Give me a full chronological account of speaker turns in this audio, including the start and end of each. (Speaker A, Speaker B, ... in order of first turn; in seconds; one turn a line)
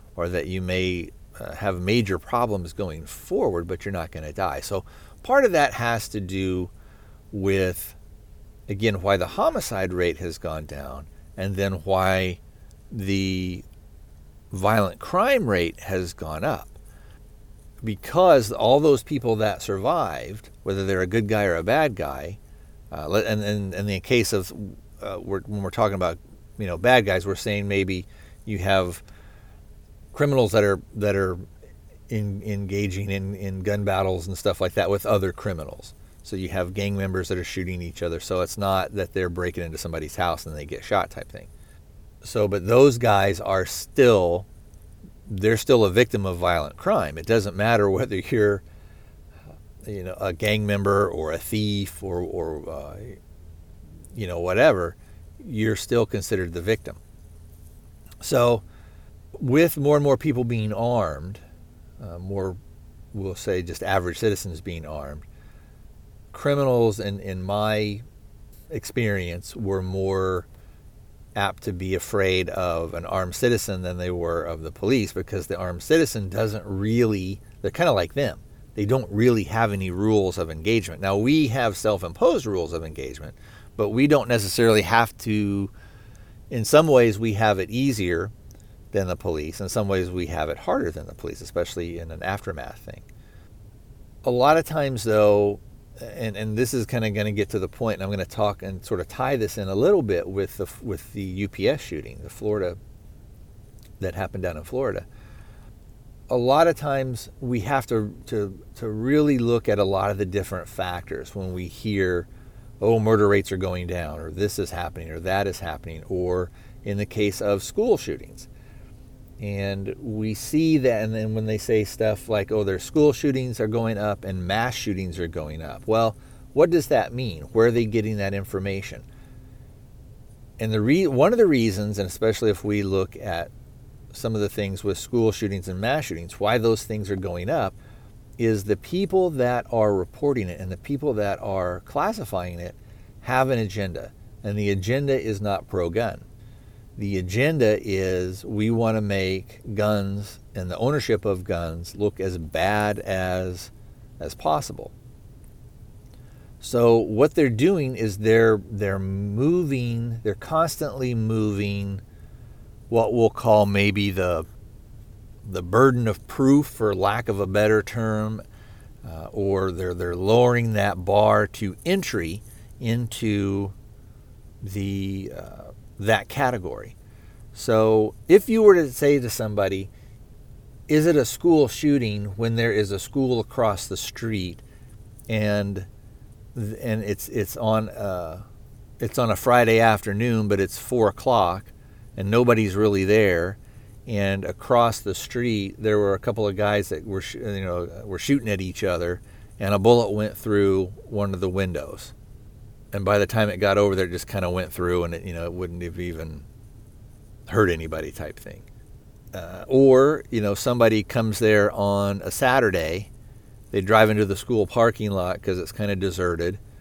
Speaker A: 0.2-6.7
Speaker A: 7.3-8.0
Speaker A: 8.7-12.4
Speaker A: 12.9-13.6
Speaker A: 14.5-16.8
Speaker A: 17.8-22.4
Speaker A: 22.9-29.0
Speaker A: 30.1-31.4
Speaker A: 32.1-41.5
Speaker A: 42.2-44.5
Speaker A: 45.3-48.6
Speaker A: 49.8-53.2
Speaker A: 54.1-57.0
Speaker A: 58.2-58.6
Speaker A: 59.4-61.4
Speaker A: 62.0-62.6
Speaker A: 63.1-65.2
Speaker A: 66.3-68.0
Speaker A: 68.7-70.5
Speaker A: 71.4-85.7
Speaker A: 86.5-88.3
Speaker A: 88.9-93.0
Speaker A: 94.2-102.8
Speaker A: 104.0-105.1
Speaker A: 106.3-112.3
Speaker A: 112.8-118.5
Speaker A: 119.4-129.1
Speaker A: 130.6-133.5
Speaker A: 134.1-137.8
Speaker A: 138.4-146.2
Speaker A: 147.0-154.9
Speaker A: 156.6-162.0
Speaker A: 162.9-164.5
Speaker A: 165.4-168.4
Speaker A: 169.0-173.8
Speaker A: 174.6-176.9
Speaker A: 177.5-179.9
Speaker A: 180.9-184.6
Speaker A: 185.3-185.9
Speaker A: 186.6-188.4
Speaker A: 189.0-202.1
Speaker A: 202.9-206.4
Speaker A: 207.5-208.7
Speaker A: 209.3-213.1
Speaker A: 213.7-216.6